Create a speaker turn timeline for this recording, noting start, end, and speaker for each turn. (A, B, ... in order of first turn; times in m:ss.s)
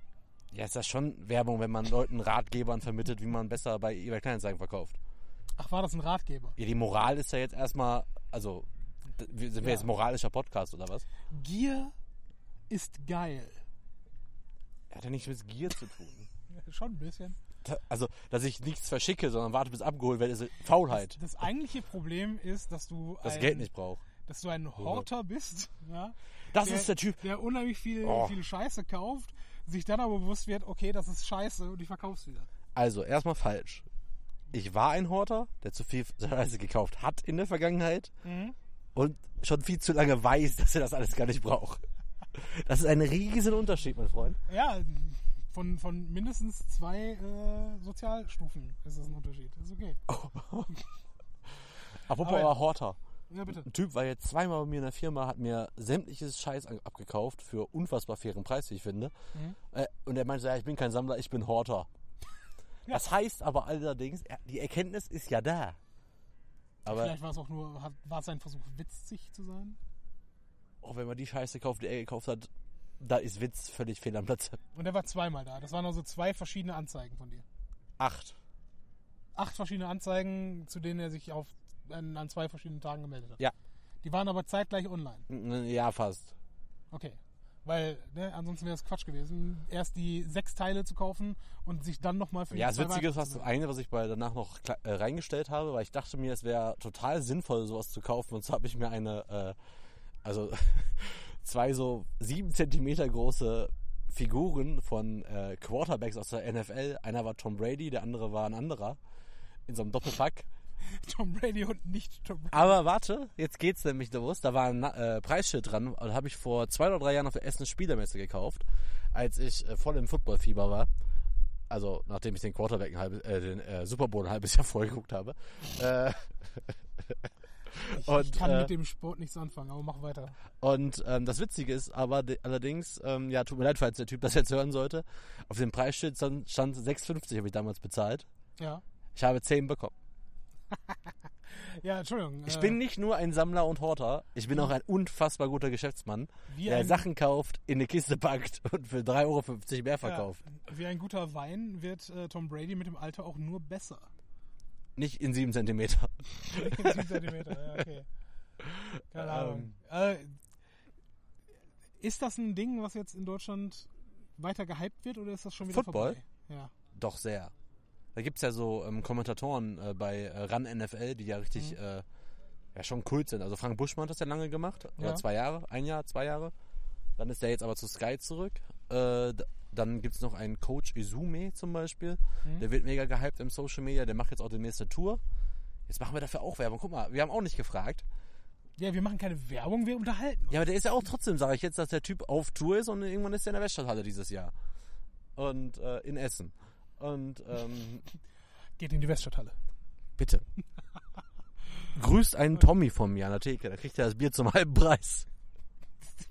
0:00.5-0:05.0 A
0:05.6-0:06.6 B
0:06.6-0:11.0 A
0:09.6-0:09.9 B
0:11.3-0:11.9 B
0:12.7-0:13.6 B
0:14.9-0:16.3 A
0:16.5-0:17.4 B
0:17.6-0:21.2 A
0:20.9-0:23.7 B
0:23.2-0:24.0 A
0:24.2-0:32.5 B
0:24.8-0:25.0 A
0:26.5-0:27.2 A
0:28.0-0:28.4 A
0:32.7-0:33.9 A
0:34.5-0:38.1 A
0:38.2-0:38.6 B
0:38.9-0:41.8 A
0:42.3-0:44.4 A
0:44.5-0:50.0 B
0:50.1-0:50.7 A
0:52.0-0:53.0 A
0:52.2-0:52.6 B
0:53.3-0:53.7 B
0:53.5-0:59.1 A
0:59.7-1:01.9 A
1:02.9-1:05.8 A
1:06.9-1:07.1 A
1:06.9-1:09.8 B
1:10.8-1:12.5 A
1:13.0-1:14.6 A
1:14.7-1:17.4 B
1:18.0-1:18.4 A
1:19.3-1:23.4 B
1:24.0-1:25.2 B
1:25.3-1:26.3 A
1:26.9-1:33.5 B
1:32.5-1:39.6 A
1:40.2-1:49.0 A
1:49.7-1:50.5 A
1:50.8-1:52.8 B
1:52.5-2:00.9 A
2:01.7-2:08.7 A
2:07.9-2:10.4 B
2:10.6-2:18.2 A
2:19.1-2:19.9 A
2:21.5-2:22.8 B
2:22.4-2:30.4 A
2:26.5-2:27.0 B
2:30.0-2:34.1 B
2:35.0-2:37.8 A
2:36.4-2:38.1 B
2:38.6-2:39.7 A
2:39.1-2:40.4 B
2:42.0-2:46.7 B
2:45.6-2:46.2 A
2:46.9-2:47.5 A
2:48.1-2:52.0 A
2:52.7-2:56.5 A
2:55.0-2:55.2 B
2:57.2-3:05.2 A
3:05.9-3:08.0 A
3:08.8-3:10.6 B
3:10.5-3:14.5 A
3:15.4-3:18.0 A
3:18.8-3:19.6 B
3:20.2-3:20.4 A
3:21.9-3:25.3 A